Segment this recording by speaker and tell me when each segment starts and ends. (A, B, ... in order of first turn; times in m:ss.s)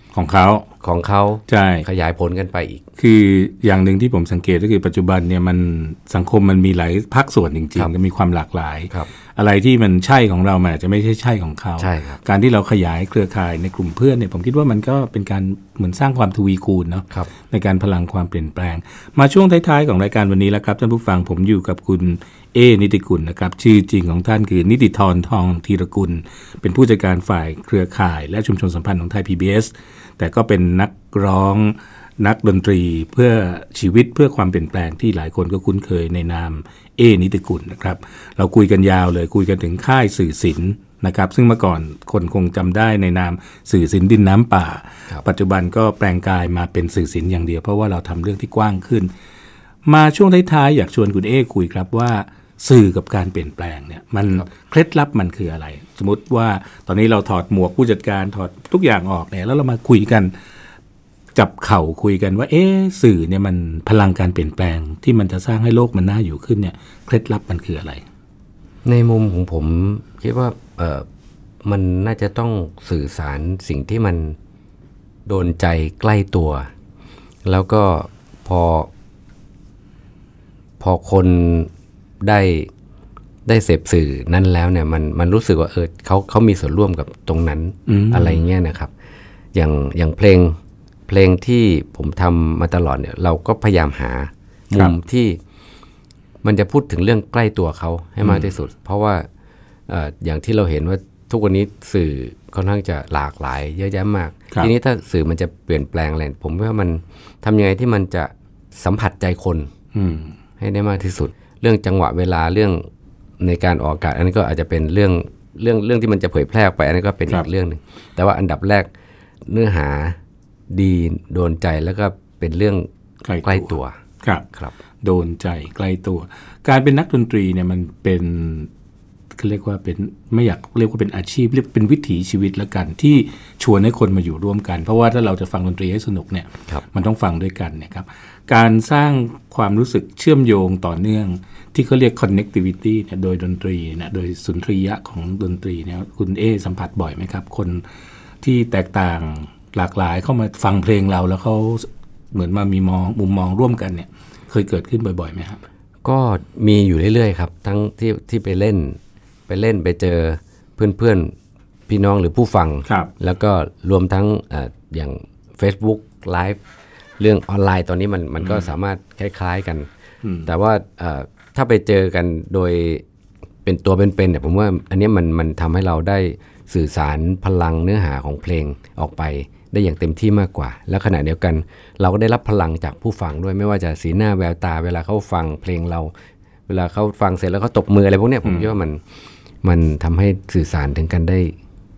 0:00.1-0:00.7 A
0:00.8-0:02.8 B
0:01.5-0:01.8 A
0:03.0-0:49.1 A
0:11.8-0:12.2 B
0:49.8-1:00.3 A
1:01.3-1:08.0 A
1:08.8-1:11.0 B
1:11.6-1:14.4 B
1:15.2-1:16.7 B
1:17.4-1:18.9 B
1:20.8-1:21.7 B
1:22.2-1:22.7 B
1:23.4-1:28.9 B
1:27.9-1:28.4 A
1:29.5-1:35.4 B
1:36.4-1:39.3 B
1:38.2-1:38.5 A
1:39.9-1:49.7 B
1:49.9-1:50.3 A
1:50.6-1:52.9 B
1:53.4-1:58.9 B
1:59.5-2:00.2 B
2:00.7-2:02.9 B
2:03.2-2:04.4 A
2:03.4-2:04.0 B
2:05.0-2:08.7 A
2:09.3-2:27.8 A
2:28.4-2:35.6 A
2:36.0-2:41.3 B
2:41.9-2:46.6 B
2:47.2-2:49.9 B
2:48.4-2:48.7 A
2:50.2-2:50.5 A
2:50.4-2:53.0 B
2:53.6-3:06.1 B
3:06.7-3:09.0 B
3:08.4-3:08.7 A
3:09.6-3:11.6 B